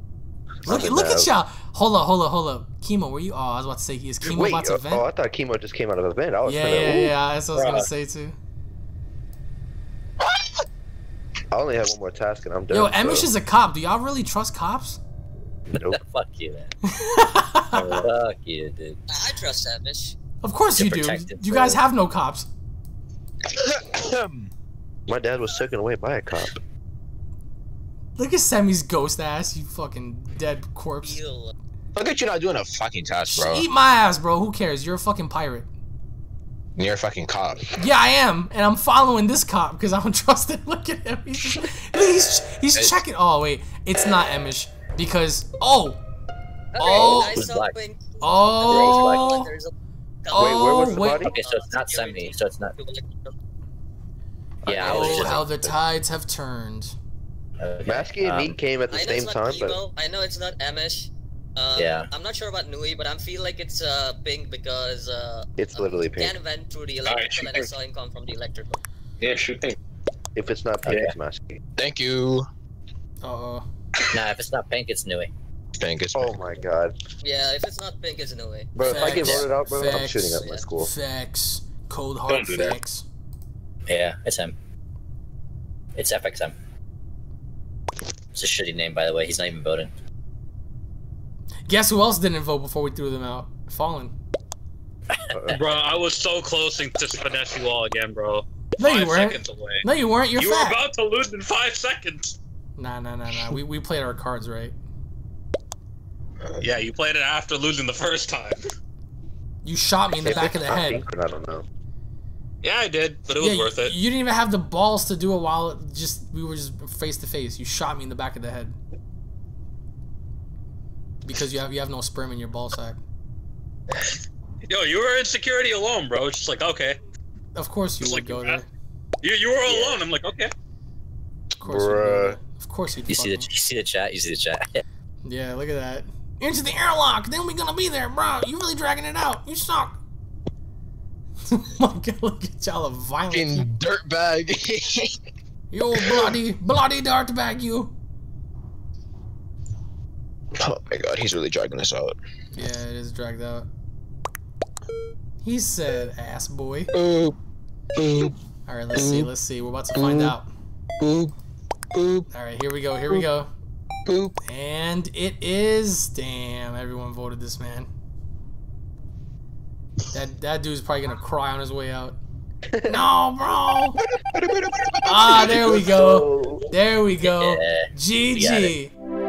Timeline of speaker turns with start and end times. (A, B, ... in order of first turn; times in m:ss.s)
0:00.6-0:01.3 A
0:00.6-0:05.1 B
0:04.2-0:07.1 A
0:06.4-0:08.3 B
0:07.5-0:07.9 C
0:10.2-0:10.6 D
0:11.5-0:13.3 A
0:12.7-0:15.0 B
0:15.7-0:16.0 A
0:15.7-0:16.7 E
0:17.0-0:17.8 B
0:17.7-0:18.1 C
0:17.9-0:19.0 E
0:19.1-0:20.1 F
0:20.4-0:22.5 B
0:20.8-0:21.8 E
0:23.6-0:24.5 D
0:25.1-0:26.6 A
0:28.2-0:31.2 B
0:31.0-0:31.5 F
0:32.0-0:33.6 D
0:33.3-0:35.7 B
0:36.8-0:37.7 D
0:37.8-0:46.0 B
0:46.7-0:49.7 F
0:46.8-0:47.4 B
0:47.2-0:47.8 E
0:48.2-0:49.5 B
0:48.7-0:49.3 E
0:50.2-0:53.3 F
0:50.3-0:51.2 B
0:50.3-0:51.3 A
0:51.2-0:52.7 E
0:54.6-0:55.8 A
0:54.7-0:55.4 E
0:54.8-0:56.9 B
0:54.8-0:55.3 F
0:57.6-0:58.6 E
0:57.8-0:59.8 A
0:58.9-1:08.8 F
1:01.8-1:02.1 E
1:05.6-1:06.4 A
1:07.0-1:07.7 C
1:09.2-1:09.8 C
1:10.3-1:11.6 A
1:10.8-1:11.1 E
1:11.8-1:12.5 D
1:13.2-1:13.6 B
1:14.1-1:15.3 E
1:15.8-1:16.4 D
1:16.1-1:16.9 A
1:17.2-1:19.4 F
1:18.8-1:20.9 A
1:18.8-1:23.0 B
1:19.9-1:20.6 F
1:22.3-1:22.8 C
1:23.9-1:24.5 E
1:26.0-1:26.5 E
1:28.3-1:29.9 E
1:31.7-1:34.1 B
1:35.1-1:35.6 E
1:35.3-1:35.7 A
1:35.5-1:42.4 G
1:38.8-1:40.8 B
1:42.8-1:44.7 B
1:46.4-1:46.8 D
1:46.6-1:48.6 G
1:49.6-1:51.0 B
1:50.2-1:51.7 A
1:52.6-1:54.0 G
1:53.4-1:58.8 B
2:01.2-2:03.0 B
2:04.7-2:07.0 G
2:07.5-2:08.6 B
2:08.0-2:08.6 G
2:09.2-2:10.5 G
2:09.7-2:10.0 E
2:11.6-2:13.5 B
2:11.6-2:12.4 A
2:13.1-2:14.8 E
2:15.2-2:20.0 B
2:21.5-2:23.7 B
2:23.3-2:25.2 D
2:25.7-2:27.9 B
2:25.9-2:26.3 D
2:30.6-2:32.2 D
2:32.5-2:33.7 B
2:35.4-2:36.9 B
2:36.9-2:37.4 D
2:37.9-2:38.3 D
2:38.6-2:40.5 B
2:38.9-2:39.3 D
2:39.9-2:40.3 D
2:41.0-2:41.3 D
2:41.9-2:42.2 D
2:42.3-2:43.5 B
2:44.0-2:44.3 D
2:44.4-2:47.9 B
2:50.1-2:52.2 B
2:52.7-2:53.0 A
2:52.9-2:54.0 B
2:54.0-2:55.7 D
2:55.0-2:58.9 B
2:55.4-2:56.7 A
2:57.2-2:58.7 E